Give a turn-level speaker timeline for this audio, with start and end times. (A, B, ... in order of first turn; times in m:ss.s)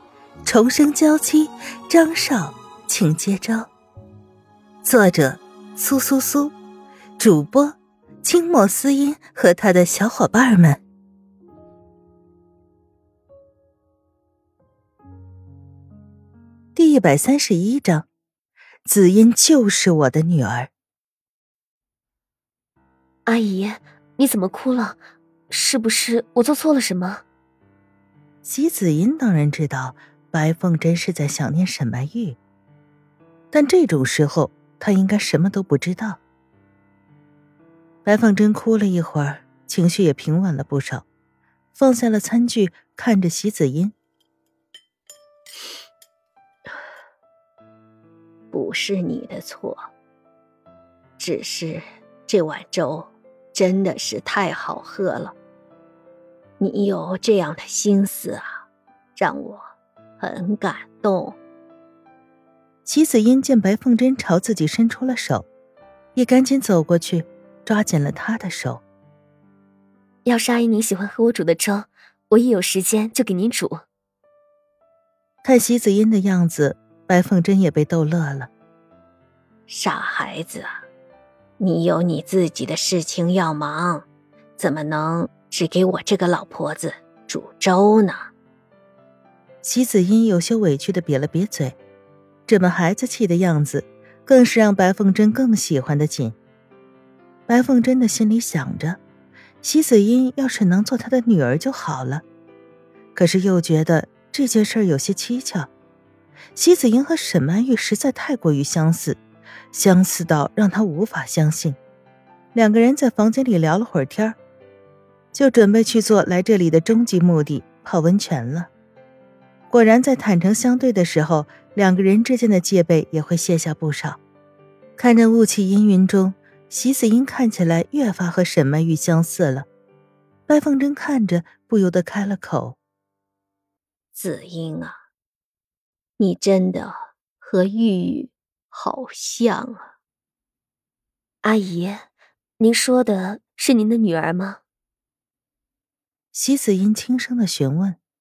0:00.4-0:03.7 A
0:04.8-0:06.5 A
0:07.2-0:10.8 A
0:16.7-0:18.1 A
0:18.8-0:20.7 A
0:23.2-0:25.0 B
0:25.5-0:27.2 B
0:28.4-0:32.4 A
0:33.5-0:36.2 A
0:38.0-0:41.0 A
0:41.7-0:43.9 A
0:48.5-0:49.8 C
0:51.2-0:55.3 C
0:56.6-0:58.4 C
0:59.2-0:59.6 C
1:00.2-1:01.4 C
1:02.8-1:05.4 A
1:06.2-1:08.8 A
1:10.2-1:13.8 B
1:15.4-1:18.5 A
1:19.7-1:20.7 C
1:21.6-1:24.0 C
1:24.6-1:28.3 C
1:29.6-1:31.8 A
1:32.5-1:36.4 A
1:37.5-1:39.0 A
1:39.6-1:42.2 A
1:43.1-1:45.7 A
1:46.6-1:49.2 A
1:49.7-1:51.8 A
1:52.5-1:54.4 A
1:55.3-1:58.7 A
1:59.7-2:04.2 A
2:05.0-2:09.7 A
2:10.5-2:12.8 A
2:14.1-2:15.0 C
2:16.2-2:19.9 C
2:21.4-2:22.0 B
2:22.6-2:24.6 B
2:26.3-2:28.0 A